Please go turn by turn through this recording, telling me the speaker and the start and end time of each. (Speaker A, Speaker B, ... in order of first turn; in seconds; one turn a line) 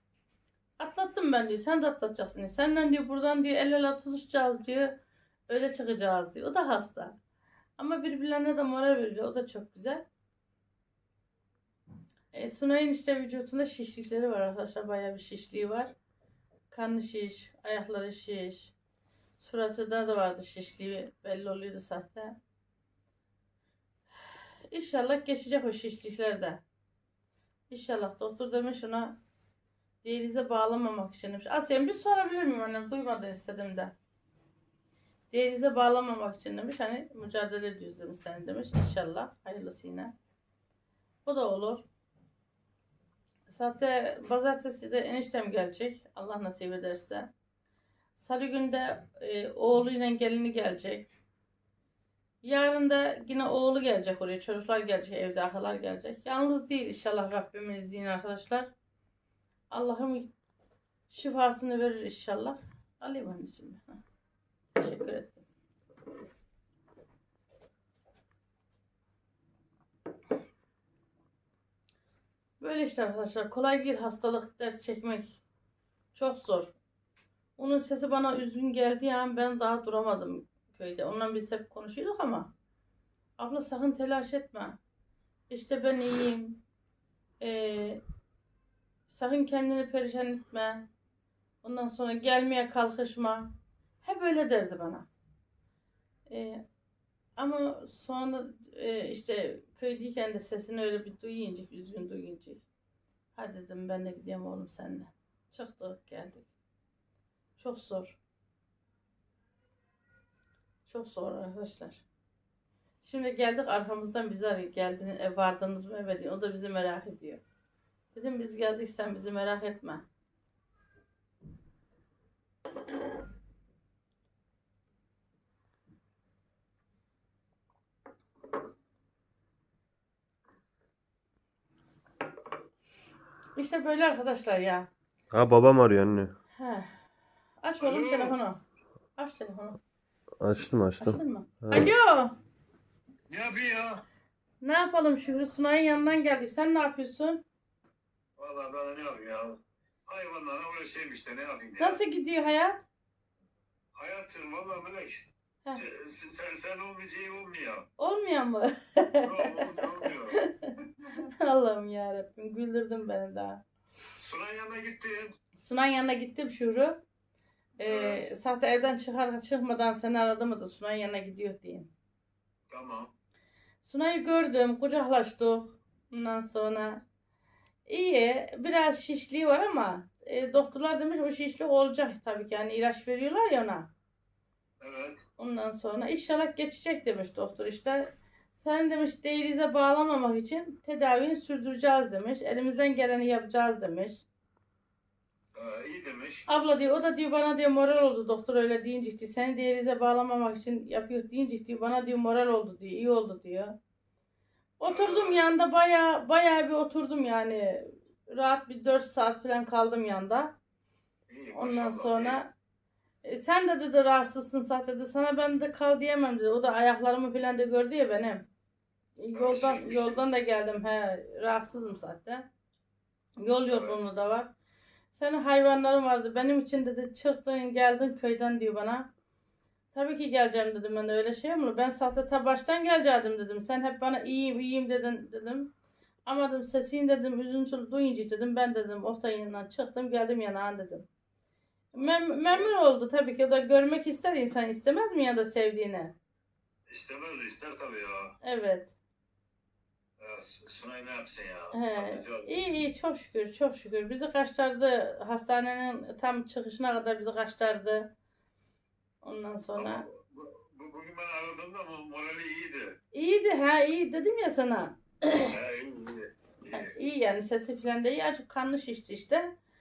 Speaker A: 0.8-5.0
Speaker A: 5.5-7.2
Speaker A: 7.8-10.0
Speaker A: 12.3-15.9
Speaker A: 16.7-18.7
Speaker A: 19.4-22.4
Speaker A: 24.7-26.6
Speaker A: 27.7-29.2
Speaker A: 30.0-33.9
Speaker A: 35.3-40.1
Speaker A: 41.2-41.9
Speaker A: 43.5-47.3
Speaker A: 48.1-51.1
Speaker A: 52.4-58.7
Speaker A: 59.7-60.3
Speaker A: 61.1-64.0
Speaker A: 64.8-65.4
Speaker A: 72.6-75.4
Speaker A: 76.1-76.7
Speaker A: 77.6-82.5
Speaker A: 83.4-84.8
Speaker A: 85.5-86.6
Speaker A: 87.4-88.0
Speaker A: 89.1-90.9
Speaker A: 91.6-95.1
Speaker A: 96.3-96.6
Speaker A: 97.4-102.6
Speaker A: 103.3-106.5
Speaker A: 107.6-108.2
Speaker A: 110.8-112.0
Speaker A: 113.0-117.4
Speaker A: 118.1-120.0
Speaker A: 133.6-134.9
Speaker B: 135.3-136.3
Speaker A: 136.6-137.0
Speaker A: 137.6-138.6
Speaker C: 137.8-138.3
Speaker A: 139.2-139.8
Speaker B: 140.4-141.9
Speaker A: 141.0-142.3
Speaker C: 143.3-144.0
Speaker A: 144.6-147.4
Speaker C: 148.4-152.0
Speaker A: 151.8-152.8
Speaker C: 153.9-157.9
Speaker A: 158.0-163.6
Speaker C: 159.1-160.4
Speaker C: 164.2-165.3
Speaker A: 165.6-167.0
Speaker A: 167.8-171.9
Speaker C: 167.8-168.3
Speaker C: 172.7-173.1
Speaker A: 173.8-177.0
Speaker A: 177.8-183.9
Speaker C: 184.8-185.2
Speaker A: 185.4-194.2
Speaker C: 195.5-196.4
Speaker A: 196.5-203.8
Speaker A: 204.8-210.5
Speaker C: 204.9-205.4
Speaker C: 211.3-212.4
Speaker A: 211.5-212.5
Speaker A: 213.2-218.4
Speaker A: 219.2-222.5
Speaker C: 219.3-220.2
Speaker A: 223.4-224.5
Speaker C: 223.7-224.0
Speaker A: 225.1-229.1
Speaker A: 229.9-235.7
Speaker A: 236.2-241.1
Speaker A: 241.9-246.1
Speaker C: 241.9-242.7
Speaker C: 246.9-248.3
Speaker A: 248.4-248.9
Speaker C: 250.2-252.6
Speaker A: 251.7-258.1
Speaker A: 259.2-260.0
Speaker C: 259.8-262.9
Speaker A: 263.1-265.5
Speaker C: 265.5-266.9
Speaker A: 266.7-269.5